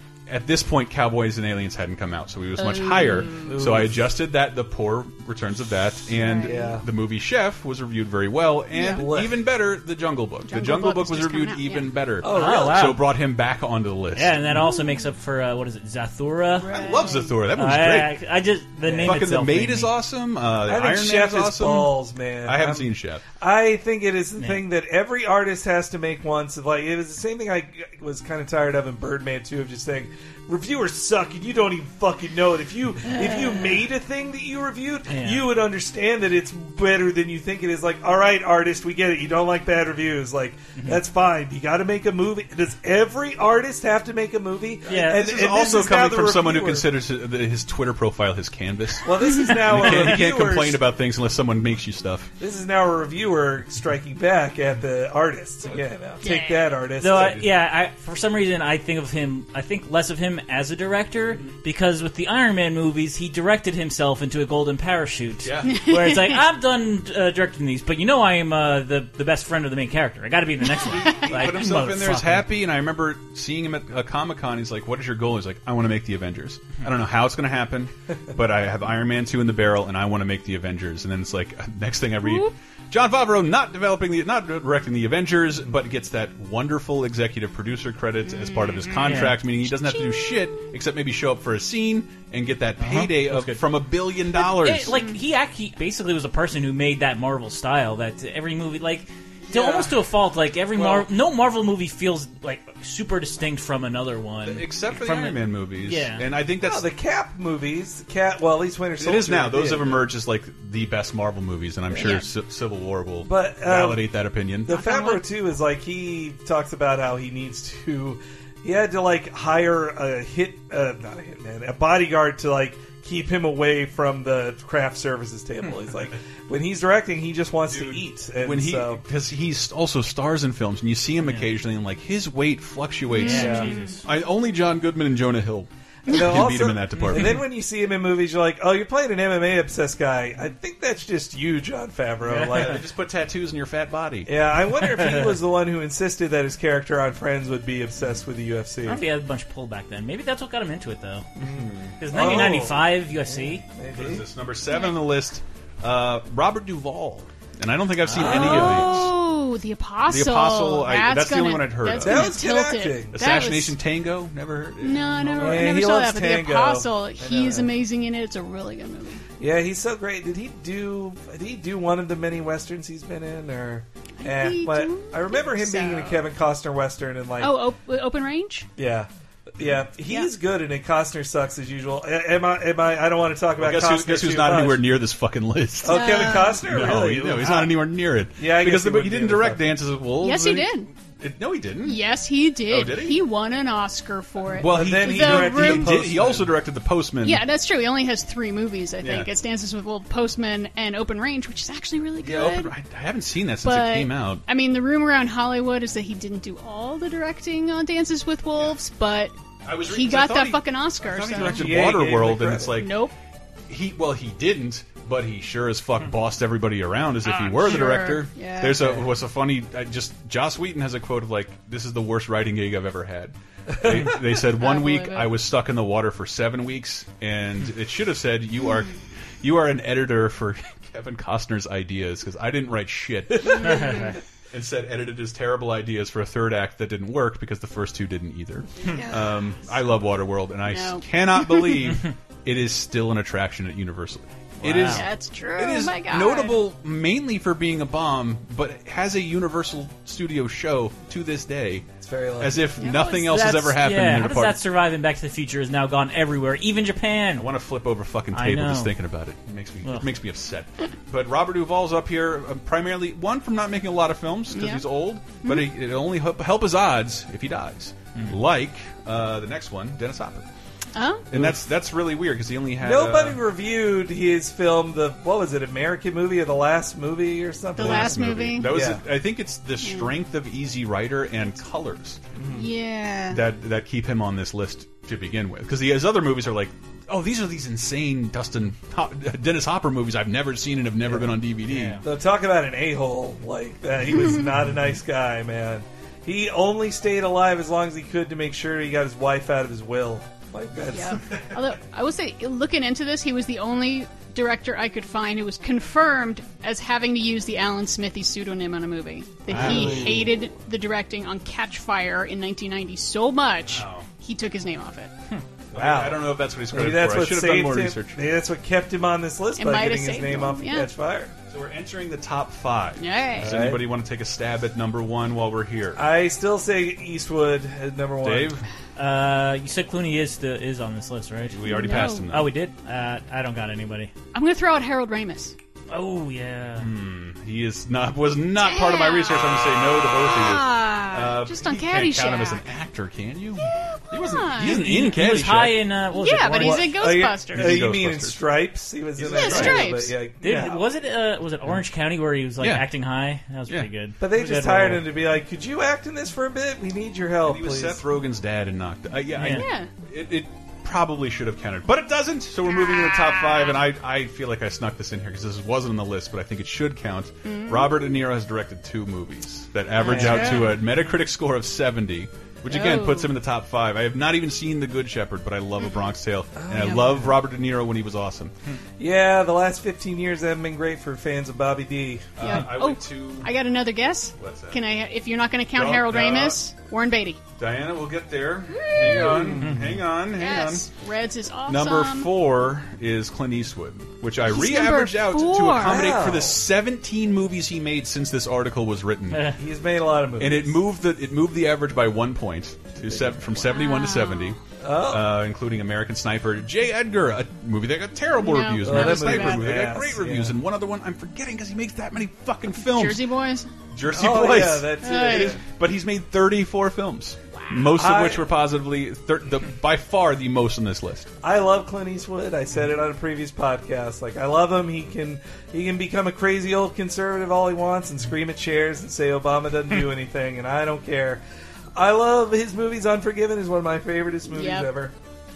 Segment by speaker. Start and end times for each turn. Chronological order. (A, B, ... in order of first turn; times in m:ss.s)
0:00.3-0:14.5 A
0:02.6-0:03.5 B
0:03.4-0:04.0 C
0:06.2-0:06.8 B
0:06.4-0:06.8 C
0:08.7-0:09.1 B
0:08.9-0:09.4 C
0:10.5-0:12.0 B
0:12.2-0:12.9 C
0:12.2-0:13.1 D
0:14.2-0:16.8 D
0:14.7-0:15.0 B
0:16.6-0:17.4 B
0:16.7-0:18.2 A
0:17.6-0:19.9 D
0:18.8-0:19.2 C
0:19.0-0:23.2 A
0:20.7-0:46.9 C
0:24.4-0:24.6 D
0:35.1-0:35.4 D
0:44.9-0:45.3 D
0:45.1-0:52.3 A
0:49.0-0:50.8 C
0:52.4-0:57.4 C
0:56.2-0:56.7 B
0:57.0-1:12.5 D
0:57.1-0:57.4 A
1:05.4-1:05.8 A
1:05.7-1:06.4 B
1:10.9-1:35.0 A
1:22.2-1:22.5 B
1:28.3-1:30.5 B
1:29.0-1:29.4 D
1:32.8-1:33.6 D
1:34.4-1:46.2 D
1:34.9-1:35.2 B
1:39.5-1:39.9 C
1:40.8-1:41.0 C
1:44.4-1:46.9 A
1:46.6-1:50.1 C
1:49.0-1:54.8 A
1:51.9-1:52.3 B
1:53.2-2:09.0 C
1:54.7-1:55.2 B
2:07.7-2:17.4 A
2:11.2-2:11.5 D
2:13.1-2:14.0 B
2:13.2-2:14.0 D
2:13.3-2:13.7 C
2:16.1-2:22.8 C
2:22.3-2:22.8 D
2:22.5-2:24.3 A
2:24.3-2:29.0 C
2:25.0-2:25.4 D
2:28.8-2:31.3 D
2:31.4-2:34.2 C
2:31.4-2:32.5 A
2:32.0-2:33.6 D
2:33.9-2:39.1 A
2:34.7-2:35.0 B
2:38.0-2:39.0 D
2:38.2-2:43.8 B
2:40.1-2:42.4 A
2:42.0-2:43.2 C
2:43.1-2:45.8 A
2:44.8-2:49.2 B
2:45.4-2:47.7 C
2:49.4-2:57.6 C
2:54.2-2:56.2 B
2:57.4-2:58.7 B
2:58.8-3:04.9 C
3:03.6-3:12.0 A
3:05.8-3:07.8 C
3:05.9-3:06.7 B
3:08.4-3:09.6 C
3:10.2-3:10.9 B
3:11.8-3:16.1 B
3:12.7-3:13.2 A
3:14.6-3:17.4 A
3:14.6-3:16.6 C
3:17.2-3:22.7 B
3:19.0-3:19.3 A
3:22.2-3:24.4 A
3:23.6-3:31.9 B
3:29.6-3:33.0 A
3:31.4-3:32.8 C
3:32.8-3:33.1 B
3:33.7-4:11.9 A
3:37.2-3:39.0 B
3:43.8-3:44.2 C
3:44.6-3:45.3 B
3:53.4-3:54.2 B
3:53.6-3:54.2 D
3:58.8-3:59.4 B
4:00.7-4:01.9 B
4:04.6-4:05.1 D
4:04.8-4:06.6 B
4:12.0-4:12.7 C
4:12.4-4:14.6 A
4:12.8-4:13.5 B
4:13.3-4:17.5 D
4:17.4-4:30.5 A
4:18.3-4:18.9 D
4:24.5-4:24.8 B
4:25.4-4:25.7 B
4:30.9-4:31.3 B
4:31.3-4:33.4 A
4:32.8-4:39.0 C
4:37.8-4:38.7 B
4:37.8-4:42.2 A
4:39.8-4:40.2 B
4:42.4-4:42.7 C
4:42.5-4:43.4 B
4:43.3-4:52.0 A
4:51.7-4:52.0 D
4:52.0-5:01.2 C
5:00.9-5:15.1 B
5:09.5-5:10.2 D
5:09.5-5:10.3 C
5:09.6-5:09.9 A
5:13.7-5:14.1 A
5:15.7-5:18.2 A
5:15.7-5:21.3 C
5:19.6-5:20.9 B
5:21.5-5:26.0 A
5:23.0-5:23.6 B
5:23.4-5:23.8 C
5:26.0-5:28.6 C
5:28.2-5:28.6 A
5:29.0-5:34.1 D
5:31.5-5:32.5 A
5:31.6-5:32.3 B
5:34.3-5:35.6 B
5:35.9-5:36.9 D
5:36.8-5:45.8 A
5:38.6-5:42.6 B
5:43.6-5:45.0 B
5:44.6-5:46.9 D
5:46.1-5:47.8 B
5:46.6-5:50.8 C
5:47.5-5:48.4 A
5:49.2-5:49.9 A
5:49.3-5:50.2 B
5:50.4-5:55.0 D
5:52.6-5:52.9 A
5:54.2-5:58.0 C
5:57.4-6:18.5 A
5:59.4-5:59.6 D
5:59.5-5:59.9 B
6:02.7-6:03.8 B
6:07.4-6:08.2 B
6:10.0-6:10.8 B
6:10.1-6:10.6 C
6:12.7-6:13.3 B
6:15.8-6:16.1 B
6:16.6-6:17.4 C
6:19.0-6:22.4 C
6:22.4-6:23.5 A
6:22.4-6:27.4 B
6:24.4-6:24.8 A
6:25.7-6:26.6 A
6:27.6-6:30.9 A
6:28.7-6:29.4 B
6:29.1-6:30.0 C
6:29.6-6:30.0 D
6:30.3-6:32.3 B
6:31.7-6:39.5 A
6:34.4-6:36.2 B
6:35.8-6:36.6 C
6:39.3-6:39.6 D
6:39.6-6:40.8 C
6:40.4-6:53.2 A
6:43.1-6:43.7 C
6:43.7-6:44.6 B
6:44.8-6:45.4 C
6:48.4-6:49.7 B
6:48.8-6:50.6 C
6:52.7-6:53.7 B
6:53.9-7:01.3 A
6:54.1-6:55.6 C
6:55.0-6:55.6 B
6:57.6-6:57.9 B
6:58.0-6:58.5 C
7:01.4-7:11.4 C
7:12.0-7:15.1 C
7:14.5-7:14.9 B